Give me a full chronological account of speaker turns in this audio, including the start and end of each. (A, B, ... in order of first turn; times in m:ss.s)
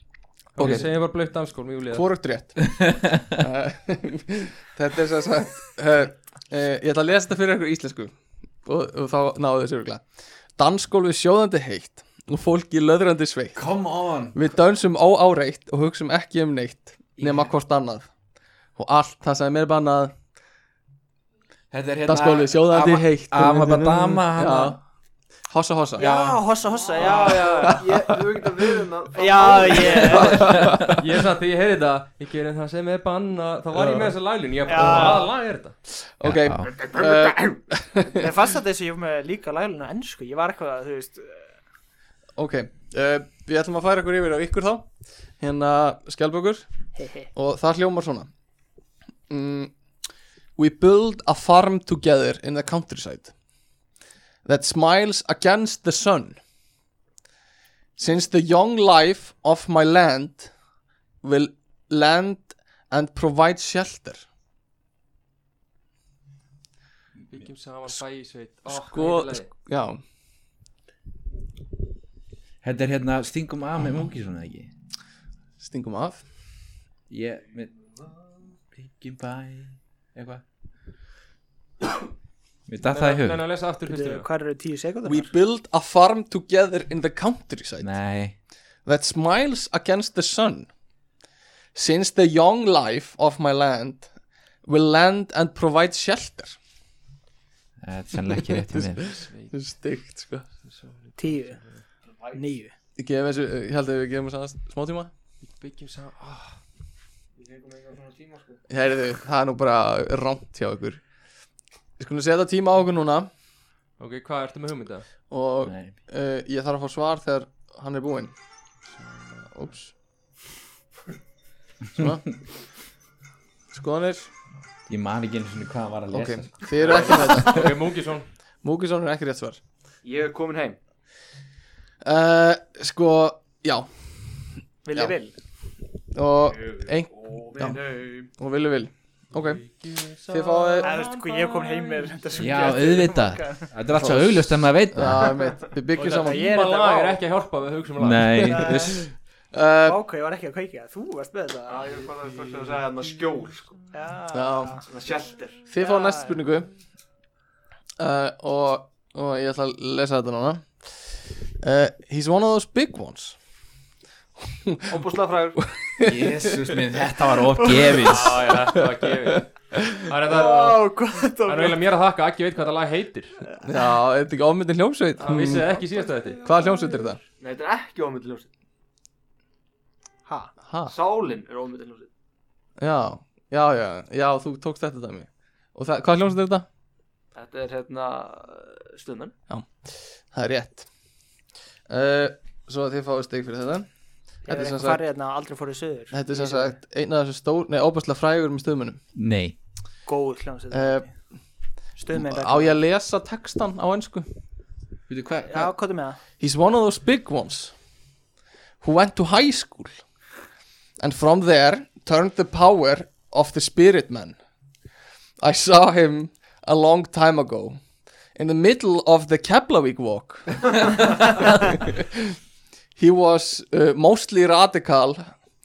0:00.6-0:02.1 A
0:00.6-0:00.9 B
0:00.6-0:00.8 C
0:01.9-0:10.0 B
0:02.8-0:03.3 C
0:10.6-0:13.6 B
0:13.6-0:14.4 C
0:14.3-0:18.1 B
0:17.2-0:17.5 C
0:18.8-0:20.2 B
0:21.7-0:24.8 C
0:22.1-0:24.8 B
0:25.5-0:26.0 B
0:26.0-0:26.4 C
0:26.0-0:27.9 D
0:26.8-0:30.6 E
0:27.0-0:27.5 C
0:27.6-0:28.1 B
0:29.1-0:30.6 D
0:30.0-0:31.0 B
0:30.4-0:30.9 C
0:30.9-0:35.8 A
0:33.7-0:34.2 B
0:34.7-0:35.3 D
0:34.8-0:35.2 B
0:35.9-0:38.3 B
0:36.2-0:36.8 C
0:38.1-0:41.5 D
0:42.4-0:44.9 B
0:45.4-0:46.7 B
0:47.0-0:47.3 D
0:47.3-0:48.3 B
0:49.3-0:49.7 B
0:50.6-0:53.3 B
0:54.4-0:56.4 B
0:58.0-1:00.5 B
1:01.2-1:04.2 B
1:07.3-1:09.5 A
1:08.7-1:10.0 B
1:12.6-1:14.7 C
1:15.6-1:16.2 B
1:17.1-1:17.7 C
1:18.8-1:20.4 C
1:22.7-1:23.4 C
1:22.8-1:24.3 A
1:23.9-1:25.3 D
1:25.0-1:27.9 B
1:27.8-1:28.4 C
1:28.8-1:30.7 B
1:31.8-1:34.1 B
1:34.6-1:36.6 B
1:37.8-1:39.2 C
1:38.4-1:40.5 B
1:40.6-1:41.8 A
1:41.2-1:41.6 D
1:42.1-1:42.4 E
1:42.3-1:42.7 D
1:43.0-1:45.1 B
1:45.5-1:46.6 A
1:47.4-1:48.6 E
1:48.7-1:51.0 B
1:52.0-1:53.3 B
1:54.0-1:55.1 A
1:55.3-1:58.3 B
1:55.7-1:56.0 C
1:59.5-1:59.9 B
2:02.0-2:02.3 B
2:03.7-2:04.3 B
2:04.9-2:06.5 C
2:06.1-2:07.8 B
2:06.8-2:08.3 A
2:08.6-2:09.6 B
2:10.0-2:10.8 E
2:12.0-2:13.9 B
2:14.8-2:15.3 D
2:16.1-2:17.8 B
2:16.6-2:18.3 E
2:18.4-2:19.6 B
2:19.3-2:22.6 A
2:20.3-2:21.0 B
2:20.8-2:23.7 D
2:22.4-2:25.3 C
2:24.0-2:26.5 B
2:26.0-2:28.6 A
2:26.0-2:27.2 D
2:28.0-2:29.0 C
2:28.4-2:29.0 D
2:28.7-2:29.0 B
2:29.5-2:30.0 B
2:29.8-2:31.9 D
2:31.7-2:33.8 E
2:33.9-2:34.8 D
2:34.3-2:34.8 B
2:34.8-2:35.7 E
2:35.7-2:36.7 B
2:35.8-2:36.4 D
2:38.0-2:40.7 B
2:41.6-2:43.4 B
2:44.6-2:46.8 B
2:44.9-2:45.6 E
2:46.0-2:48.5 C
2:47.6-2:48.0 D
2:47.8-2:50.8 A
2:48.7-2:50.1 B
2:50.2-2:51.8 D
2:51.5-2:53.4 A
2:53.5-2:53.9 D
2:53.6-2:55.7 B
2:55.2-2:56.4 A
2:55.5-2:56.7 D
2:56.4-2:57.2 B
2:57.4-2:58.5 E
3:00.3-3:00.5 D
3:00.7-3:01.0 B
3:00.9-3:02.1 E
3:02.8-3:06.7 B
3:07.4-3:09.4 E
3:09.5-3:10.9 B
3:11.9-3:13.9 B
3:14.5-3:15.0 B
3:14.5-3:16.8 D
3:16.1-3:19.0 B
3:19.2-3:19.6 C
3:20.1-3:21.1 D
3:20.7-3:21.1 B
3:22.0-3:22.8 D
3:22.1-3:24.3 B
3:25.1-3:25.7 C
3:25.5-3:26.2 D
3:26.4-3:27.7 B
3:28.8-3:30.0 B
3:31.0-3:34.4 B
3:35.4-3:37.8 B
3:38.4-3:42.4 B
3:43.0-3:45.3 B